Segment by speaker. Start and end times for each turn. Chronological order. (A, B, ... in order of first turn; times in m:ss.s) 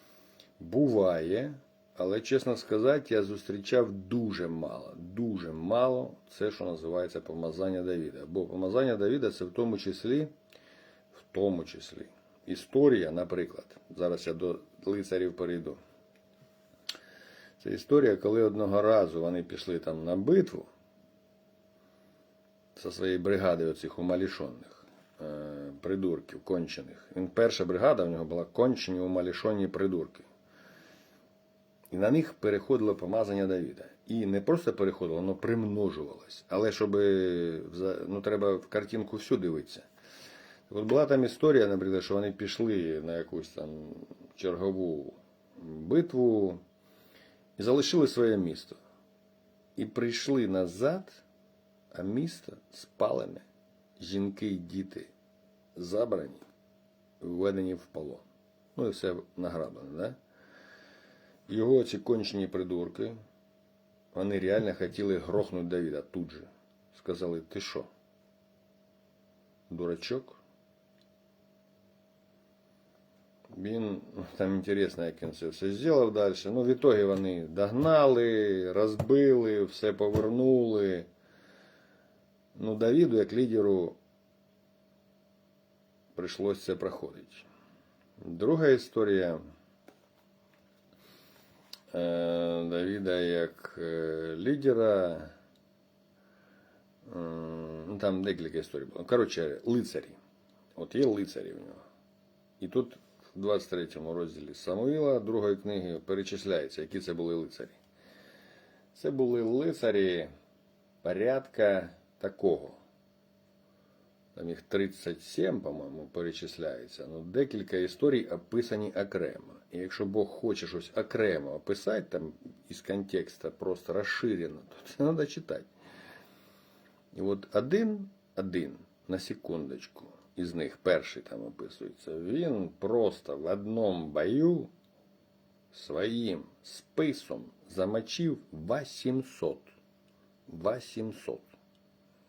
0:00.6-0:10.3 A
0:11.1-0:15.8 A
0:17.6-0:20.7 A
0:22.8-0:30.2 A
0:31.9-0:39.8 A
0:40.7-0:46.6 A
0:47.6-0:48.8 A
0:49.8-0:51.2 A
0:51.9-0:53.4 A
0:54.0-0:55.1 A
0:55.7-0:56.4 A
0:57.2-0:58.2 A
0:58.8-1:00.2 A
1:01.5-1:03.2 A
1:04.1-1:07.9 A
1:09.7-1:10.4 A
1:13.5-1:21.1 A
1:22.5-1:24.0 A
1:26.1-1:27.5 A
1:28.2-1:29.4 A
1:31.9-1:35.3 A
1:37.0-1:40.2 A
1:40.8-1:41.8 A
1:42.6-1:47.8 A
1:48.9-1:50.3 A
1:51.0-1:52.8 A
1:54.3-2:05.7 A
2:07.1-2:14.7 A
2:15.7-2:19.7 A
2:20.5-2:21.5 A